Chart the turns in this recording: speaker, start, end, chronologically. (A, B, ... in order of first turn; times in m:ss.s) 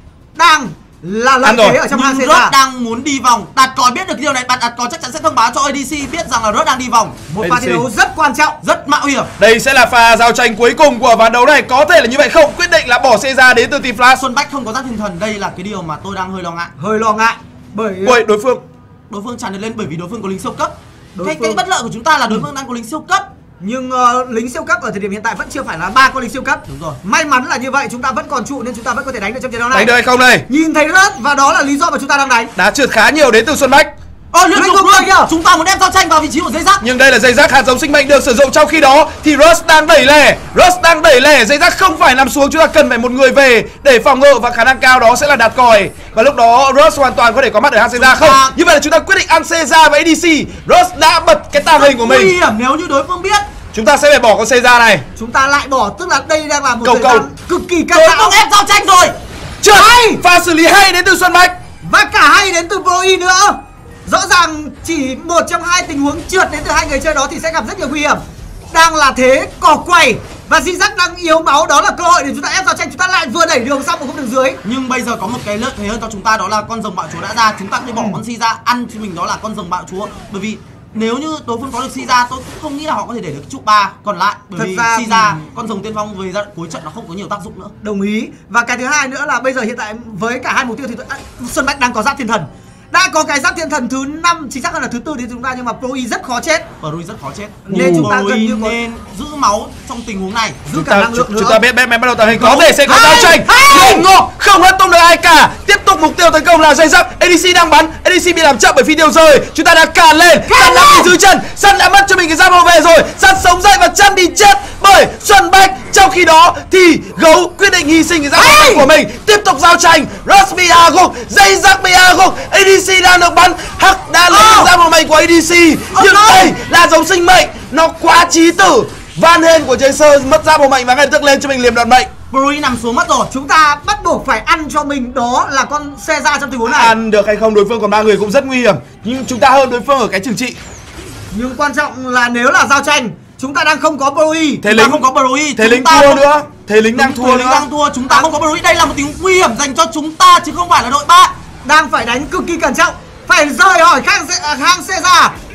0:00.4-0:02.5 A
0:01.4-0:01.8 B
0:01.9-0:07.2 C
0:07.3-0:08.6 A
0:07.4-0:07.9 B
0:08.6-0:09.3 C
0:09.4-0:14.2 B
0:14.2-0:16.7 C
0:16.8-0:18.2 A
0:18.0-0:18.6 B
0:19.1-0:23.3 C
0:21.2-0:21.6 A
0:23.6-0:29.9 A
0:26.7-0:27.0 C
0:29.7-0:30.5 B
0:30.5-0:32.5 A
0:32.6-0:33.9 B
0:34.3-0:36.8 C
0:34.6-0:35.3 A
0:36.8-0:52.4 B
0:47.9-0:48.6 C
0:51.7-0:53.5 C
0:53.7-0:55.1 B
0:55.2-0:58.4 A
0:56.8-0:57.3 B
0:57.9-0:59.2 C
0:59.6-1:01.6 B
0:59.7-1:00.2 A
1:01.8-1:14.6 A
1:14.6-1:27.7 C
1:17.9-1:18.2 A
1:24.6-1:25.4 A
1:27.8-1:36.7 A
1:36.8-1:40.6 C
1:37.7-1:38.8 A
1:37.7-1:38.1 B
1:40.7-1:41.6 A
1:40.7-2:12.1 B
1:42.3-1:44.1 A
1:50.5-1:51.1 A
1:58.4-1:58.9 A
2:04.3-2:04.6 A
2:04.4-2:04.7 C
2:05.9-2:06.5 C
2:12.3-2:13.3 C
2:13.3-2:17.0 A
2:16.7-2:20.6 B
2:21.3-2:24.7 A
2:24.6-2:27.7 B
2:24.6-2:26.2 C
2:27.0-2:31.3 C
2:31.6-2:35.4 A